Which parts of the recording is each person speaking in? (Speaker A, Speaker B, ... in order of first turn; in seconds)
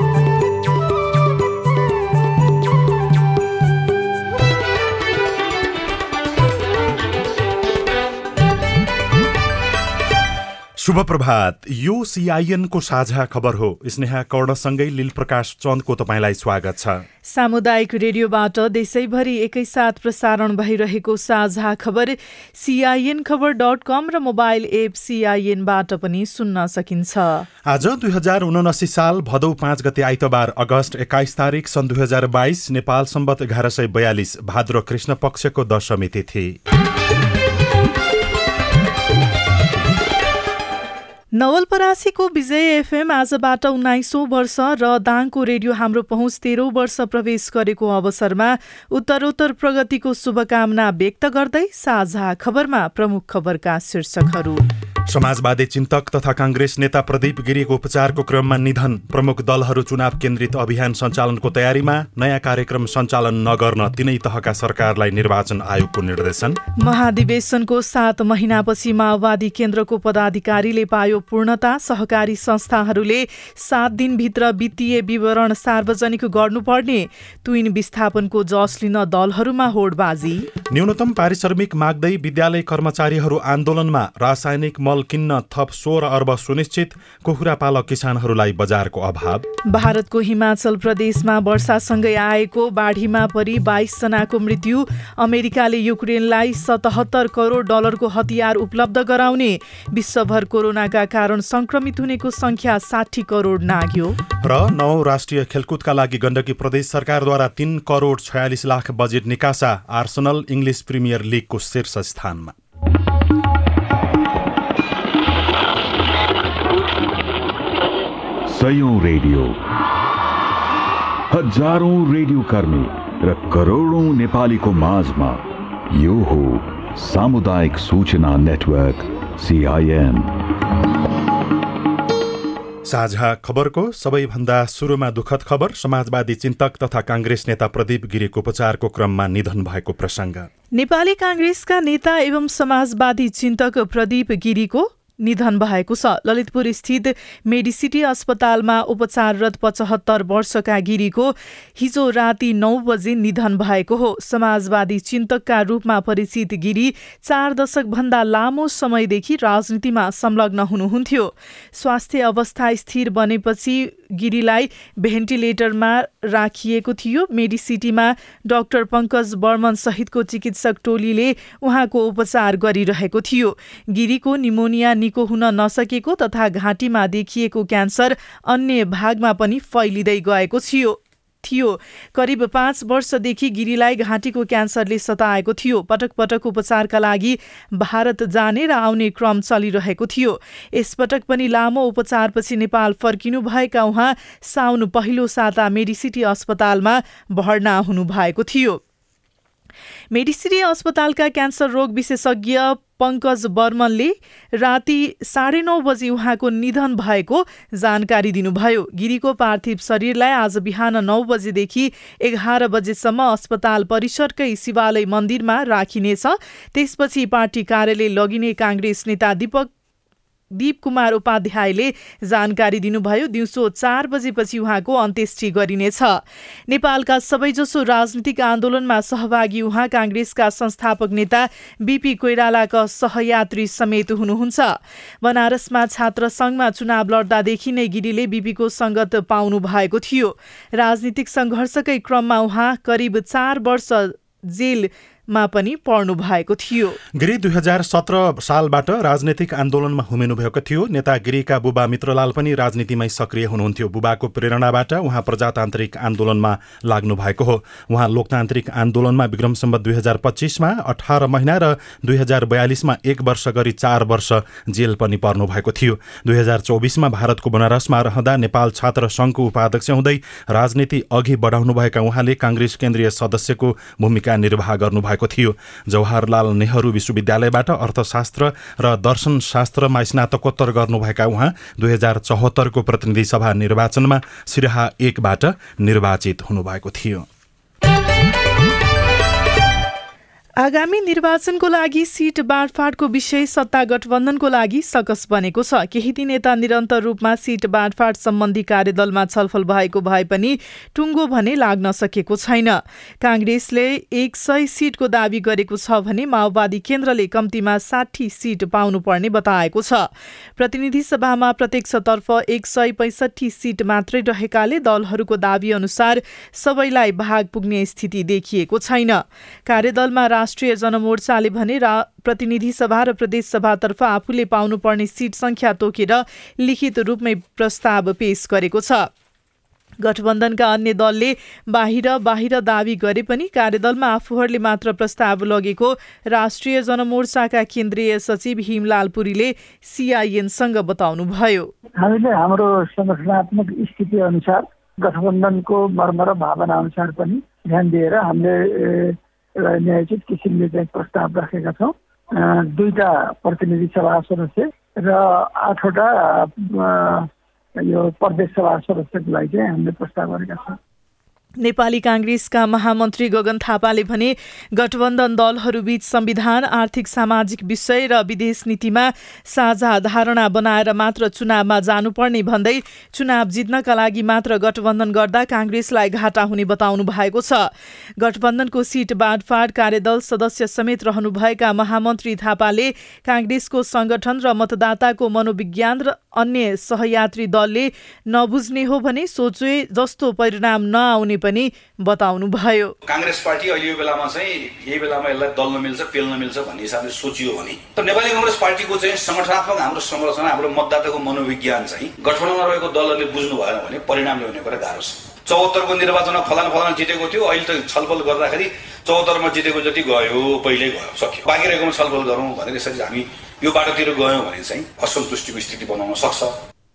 Speaker A: 10.8-17.0, 27.7-36.5, 55.1-66.6, 80.7-89.4, 104.4-112.5, 132.8-140.5, 247.2-287.2
Speaker B: 17.3-27.4, 41.4-54.6, 66.8-80.5, 89.7-104.2, 140.8-198.8, 200.1-219.7, 220.5-247.0, 290.6-329.1, 330.0-341.7, 361.6-377.7, 378.2-392.9
Speaker C: 118.5-119.6, 121.3-130.3
Speaker D: 342.0-357.2, 357.8-360.8
Speaker E: 393.1-416.5